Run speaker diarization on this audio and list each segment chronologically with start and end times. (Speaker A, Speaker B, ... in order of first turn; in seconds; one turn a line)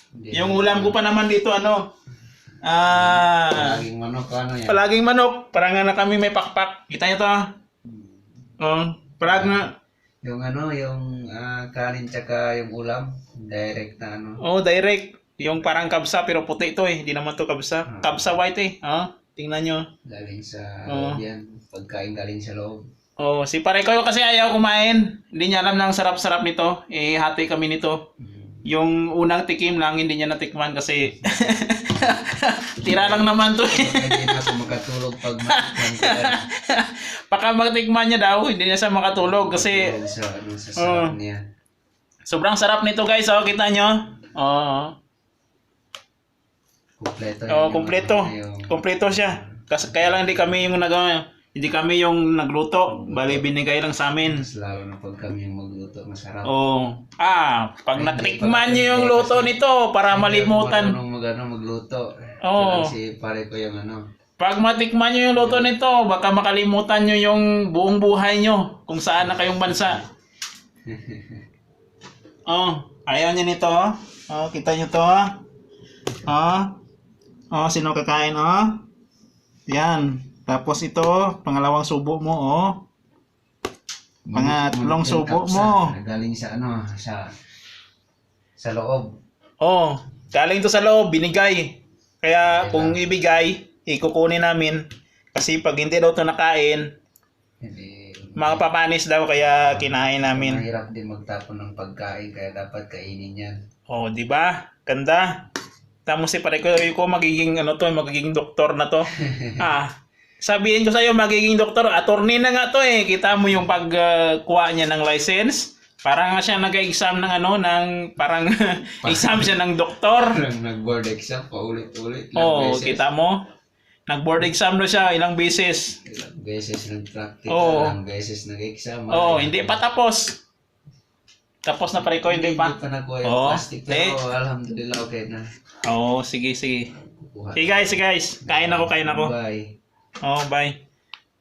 Speaker A: 0.1-1.0
Speaker B: 0.3-1.9
Speaker B: 2.6-3.8
Speaker A: 2.9-4.9
Speaker B: 4.7-7.5
Speaker A: 7.8-8.3
Speaker B: 8.6-9.7
Speaker A: 9.2-9.6
Speaker A: 10.2-14.4
Speaker B: 14.4-19.9
Speaker A: 17.9-18.4
Speaker A: 20.1-22.9
Speaker B: 20.9-21.2
Speaker B: 23.2-28.0
Speaker A: 28.2-28.6
Speaker B: 28.6-34.5
Speaker A: 32.9-36.5
Speaker B: 35.5-39.9
Speaker A: 39.2-41.4
Speaker B: 40.8-41.1
Speaker B: 42.3-44.9
Speaker A: 47.0-50.6
Speaker B: 47.5-54.5
Speaker A: 52.9-53.5
Speaker A: 54.2-56.5
Speaker B: 56.5-61.0
Speaker A: 58.0-59.5
Speaker A: 60.1-64.0
Speaker B: 62.4-62.9
Speaker B: 64.4-70.0
Speaker A: 65.3-65.7
Speaker A: 69.5-69.9
Speaker A: 70.9-71.4
Speaker B: 72.5-75.4
Speaker B: 76.2-76.8
Speaker B: 77.5-78.8
Speaker B: 79.7-82.8
Speaker A: 84.3-87.3
Speaker B: 84.3-85.9
Speaker A: 88.6-89.1
Speaker B: 89.6-94.8
Speaker A: 92.4-93.0
Speaker B: 95.3-96.9
Speaker A: 97.6-98.7
Speaker B: 98.4-100.6
Speaker A: 99.5-103.6
Speaker B: 103.9-105.4
Speaker B: 106.1-120.4
Speaker A: 109.2-109.6
Speaker A: 119.0-119.6
Speaker A: 120.1-123.0
Speaker B: 122.4-123.4
Speaker B: 124.1-126.0
Speaker A: 126.0-129.8
Speaker B: 127.5-128.0
Speaker B: 129.1-130.4
Speaker B: 131.6-134.2
Speaker A: 132.0-135.4
Speaker B: 135.9-136.9
Speaker A: 137.2-139.7
Speaker B: 137.6-139.3
Speaker B: 140.2-140.8